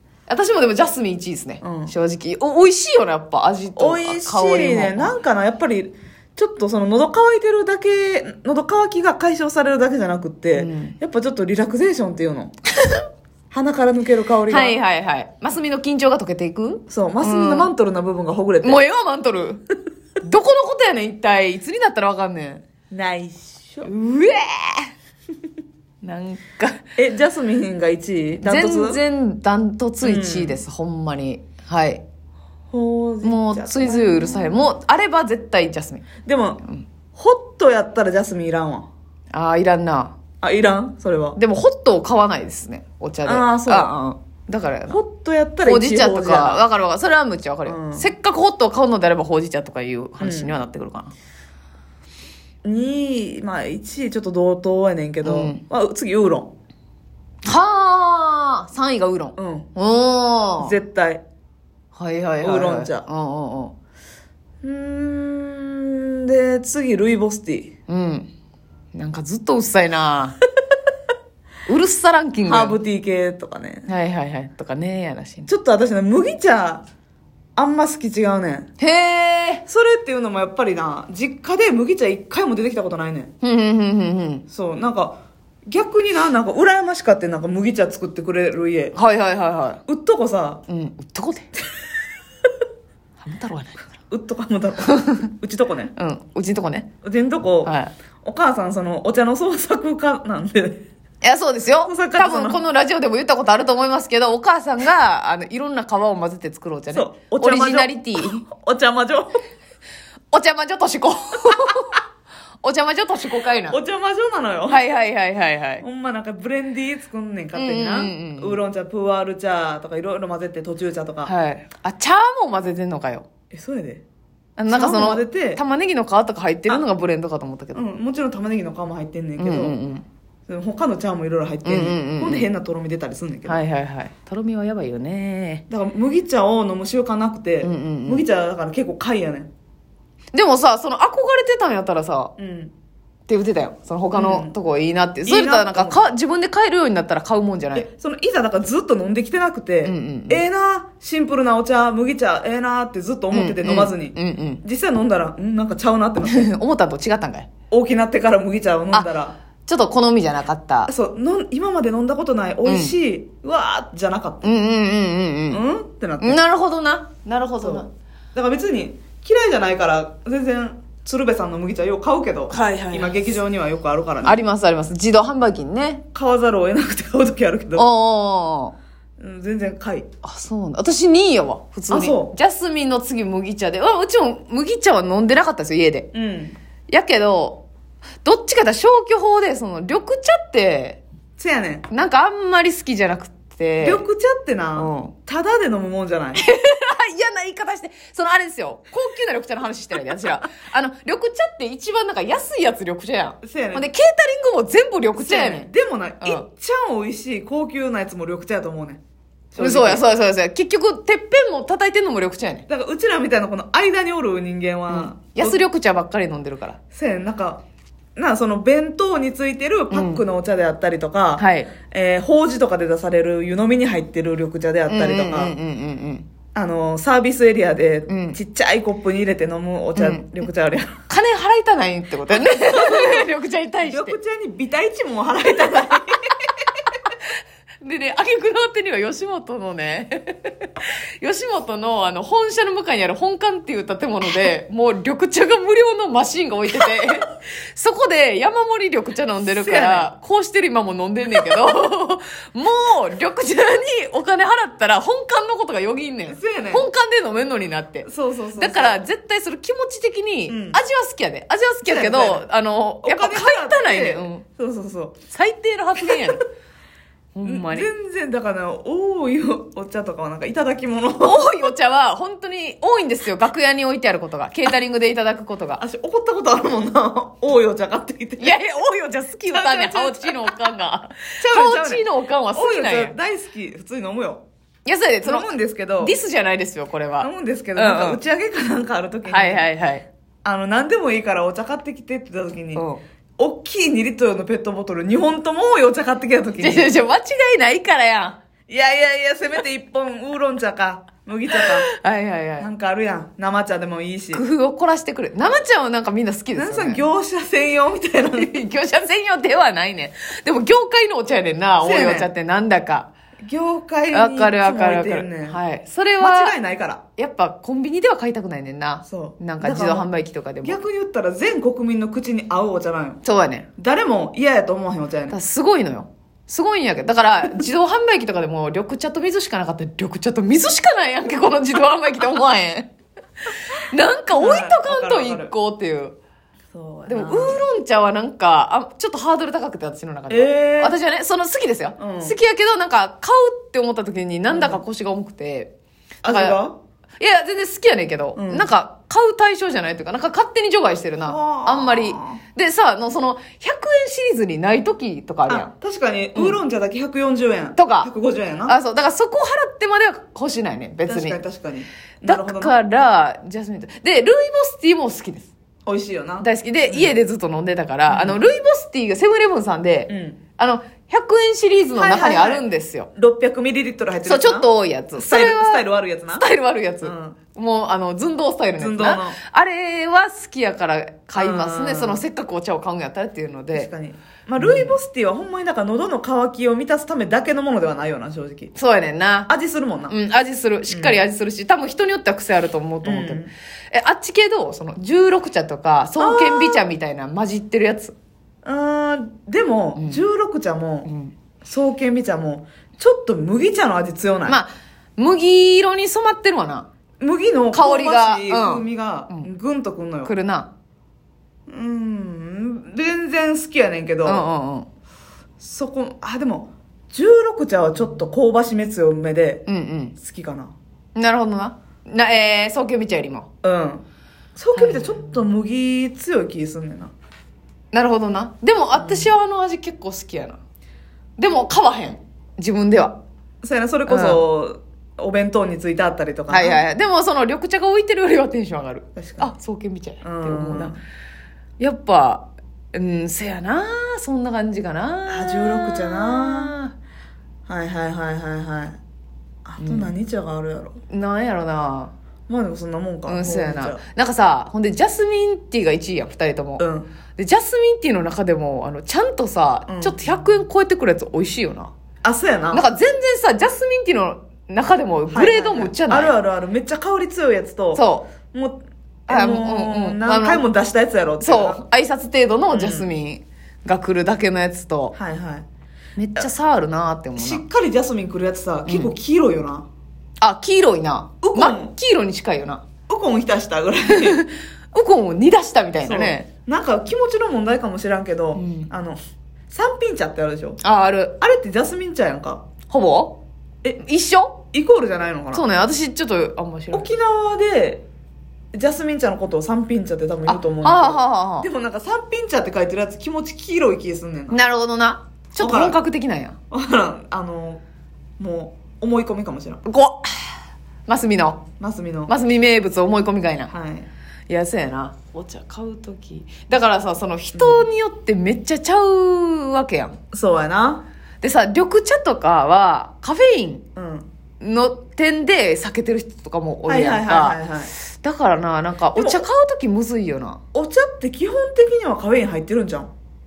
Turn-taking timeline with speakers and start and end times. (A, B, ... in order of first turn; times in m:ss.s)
0:00.3-0:05.2 A
0:01.6-0:01.9 B
0:03.8-0:12.5 B
0:10.6-0:11.0 A
0:13.5-0:14.8 B
0:14.5-0:17.7 A
0:16.9-0:18.8 B
0:18.6-0:19.6 A
0:20.2-0:22.6 A
0:22.9-0:23.9 B
0:23.8-0:24.9 A
0:26.0-0:26.8 A
0:27.0-0:29.0 B
0:28.4-0:32.0 A
0:30.0-0:30.6 B
0:32.7-0:34.7 B
0:33.2-0:36.1 A
0:36.2-0:36.6 B
0:37.2-0:38.9 B
0:39.3-0:40.2 A
0:40.4-0:41.4 B
0:41.4-0:45.0 A
0:43.2-0:43.9 B
0:44.9-0:46.7 B
0:45.6-0:51.1 A
0:47.7-0:48.1 B
0:50.2-0:50.6 B
0:52.6-0:56.5 B
0:55.2-0:55.6 A
0:57.4-1:00.8 A
0:59.4-0:59.7 B
1:00.6-1:01.2 B
1:02.0-1:03.8 A
1:02.4-1:03.1 B
1:04.6-1:07.7 B
1:07.9-1:08.3 A
1:08.9-1:10.4 A
1:11.7-1:12.8 A
1:12.4-1:13.9 B
1:13.9-1:15.5 A
1:15.5-1:16.8 B
1:17.6-1:18.7 B
1:18.8-1:19.6 A
1:19.7-1:23.3 B
1:23.4-1:24.4 A
1:24.5-1:29.0 B
1:29.0-1:29.8 A
1:29.9-1:30.6 B
1:30.7-1:31.5 A
1:33.2-1:33.8 A
1:34.1-1:35.9 B
1:34.9-1:35.3 A
1:36.0-1:36.9 A
1:37.0-1:40.8 B
1:37.6-1:37.9 A
1:41.2-1:48.5 A
1:41.8-1:42.6 B
1:46.9-1:49.4 B
1:50.3-1:52.0 A
1:52.6-1:53.8 A
1:53.7-1:54.8 B
1:54.7-1:55.8 A
1:55.8-2:01.3 B
1:57.6-1:58.6 A
2:01.2-2:03.3 A
2:03.5-2:04.0 B
2:04.6-2:07.8 A
2:04.7-2:05.6 B
2:07.7-2:09.8 B
2:09.4-2:10.0 A
2:10.5-2:13.6 B
2:11.6-2:12.5 A
2:13.5-2:15.6 A
2:15.7-2:19.5 B
2:17.6-2:18.2 A
2:20.3-2:22.3 A
2:22.4-2:22.7 B
2:23.3-2:27.9 A
2:24.1-2:24.5 B
2:25.2-2:26.1 B
2:27.7-2:36.5 B
2:29.8-2:30.4 A
2:33.3-2:34.6 A
2:36.2-2:37.5 A
2:37.7-2:39.4 B
2:39.7-2:40.9 A
2:40.9-2:44.6 B
2:42.7-2:42.9 A
2:44.4-2:45.6 A
2:45.5-2:46.4 B
2:46.2-2:47.9 A
2:47.6-2:54.4 B
2:52.5-2:53.3 A
2:54.2-2:56.0 A
2:56.1-2:57.9 B
2:57.8-2:58.8 A
2:59.2-3:00.1 B
3:00.2-3:06.1 A
3:01.9-3:02.3 B
3:06.1-3:06.6 B
3:06.9-3:07.6 A
3:08.2-3:11.0 A
3:11.4-3:11.9 B
3:11.9-3:14.0 A
3:13.8-3:16.4 B
3:14.8-3:15.1 A
3:16.4-3:25.7 A
3:23.4-3:23.9 B
3:25.2-3:29.0 B
3:29.5-3:30.0 B
3:29.6-3:32.6 A
3:32.7-3:35.6 B
3:34.9-3:36.8 A
3:36.9-3:37.6 B
3:38.2-3:45.6 B
3:39.9-3:40.2 A
3:41.4-3:41.7 A
3:44.9-3:46.3 A
3:46.6-3:51.0 B
3:48.1-3:48.4 A
3:50.0-3:50.5 A
3:51.1-3:54.2 A
3:52.3-3:53.3 B
3:53.8-3:56.7 B
3:57.8-4:24.4 A
4:09.5-4:10.1 B
4:16.3-4:16.9 B
4:18.0-4:19.0 B
4:20.5-4:20.8 B
4:21.8-4:22.5 B
4:23.0-4:25.2 B
4:25.3-4:26.4 A
4:27.4-4:27.9 A
4:27.4-4:31.6 B
4:31.2-4:35.8 A
4:35.8-4:38.6 B
4:38.4-4:43.2 A
4:39.5-4:40.7 B
4:41.4-4:44.4 B
4:44.9-4:48.2 A
4:45.2-4:46.2 B
4:47.2-4:49.7 B
4:49.3-4:50.1 A
4:50.4-4:52.8 B
4:52.8-4:53.0 A
4:53.4-4:56.9 B
4:56.6-4:58.4 A
4:58.7-5:01.9 B
5:01.6-5:02.7 A
5:02.6-5:04.4 B
5:04.3-5:07.0 A
5:06.6-5:08.6 B
5:08.4-5:13.1 A
5:11.8-5:12.3 B
5:13.4-5:15.6 B
5:14.1-5:16.6 A
5:16.2-5:17.0 B
5:17.2-5:20.8 A
5:19.1-5:20.1 B
5:20.6-5:23.2 B
5:23.2-5:23.7 A
5:23.8-5:25.4 B
5:25.3-5:32.9 A
5:33.5-5:36.2 A
5:34.3-5:35.5 B
5:36.7-5:37.6 B
5:37.1-5:45.7 A
5:40.3-5:41.0 B
5:42.0-5:42.4 B
5:44.5-5:44.8 B
5:46.2-5:46.8 B
5:46.2-5:46.6 A
5:47.2-5:55.7 A
5:48.4-5:48.7 B
5:51.2-5:52.4 B
5:55.5-5:58.8 B
5:57.8-5:58.1 A
5:58.7-6:01.4 A
6:01.1-6:02.8 B
6:02.2-6:05.5 A
6:05.9-6:07.1 B
6:06.4-6:13.1 A
6:08.1-6:08.4 B
6:10.1-6:10.4 B
6:11.9-6:16.4 B
6:14.2-6:15.8 A
6:16.4-6:23.9 A
6:17.0-6:17.4 B
6:18.8-6:19.4 B
6:21.4-6:22.2 B
6:23.7-6:28.7 B
6:24.6-6:25.0 A
6:28.8-6:29.5 A
6:29.5-6:30.2 B
6:30.1-6:33.4 A
6:30.9-6:31.2 B
6:33.0-6:33.5 B
6:33.9-6:38.2 A
6:36.2-6:36.9 B
6:38.6-6:41.1 B
6:40.0-6:40.2 A
6:41.1-6:41.3 A
6:41.6-6:44.6 B
6:44.5-6:46.9 A
6:47.2-6:50.3 B
6:47.7-6:49.5 A
6:50.2-6:50.7 A
6:51.7-6:54.5 B
6:54.2-6:54.9 A
6:55.6-6:59.6 B
6:59.7-7:00.2 A
7:00.2-7:00.7 B
7:01.2-7:03.5 A
7:03.6-7:04.0 B
7:04.6-7:07.1 B
7:04.8-7:05.4 A
7:07.9-7:10.6 A
7:09.0-7:09.3 B
7:11.4-7:13.2 A
7:13.6-7:16.8 B
7:14.1-7:14.4 A
7:16.5-7:21.0 A
7:19.2-7:19.5 B
7:20.2-7:21.0 B
7:21.8-7:26.9 A
7:25.3-7:26.8 B
7:27.7-7:29.0 B
7:29.7-7:31.0 B
7:29.8-7:30.1 A
7:31.1-7:32.1 A
7:32.5-7:34.0 B
7:33.3-7:36.8 A
7:36.8-7:37.1 B
7:37.4-7:41.9 A
7:39.9-7:40.2 B
7:42.2-7:42.9 B
7:42.7-7:46.3 A
7:45.3-7:51.8 B
7:47.9-7:48.3 A
7:49.3-7:50.7 A
7:51.4-7:55.2 A
7:52.7-7:53.1 B
7:55.1-7:55.7 B
7:56.2-7:57.6 A
7:57.4-7:59.9 B
7:58.9-7:59.1 A
8:00.4-8:02.8 A
8:01.4-8:01.9 B
8:03.1-8:04.4 B
8:04.1-8:06.5 A
8:06.0-8:09.2 B
8:08.6-8:08.9 A
8:09.7-8:10.8 B
8:10.8-8:11.4 A
8:11.4-8:12.6 B
8:12.9-8:13.4 A
8:14.0-8:14.6 A
8:14.7-8:15.7 B
8:15.5-8:17.1 A
8:16.9-8:18.0 B
8:18.7-8:24.6 B
8:20.5-8:21.7 A
8:24.5-8:26.6 A
8:25.6-8:26.0 B
8:26.7-8:27.8 B
8:28.4-8:29.8 B
8:29.8-8:31.6 A
8:31.8-8:32.3 B
8:32.3-8:33.7 A
8:33.7-8:34.1 B
8:34.5-8:40.2 A
8:37.5-8:37.9 B
8:40.3-8:41.0 B
8:41.4-8:43.8 A
8:44.0-8:44.3 B
8:44.6-8:47.6 A
8:46.9-8:47.9 B
8:48.1-8:50.6 A
8:49.2-8:49.4 B
8:50.7-8:53.1 B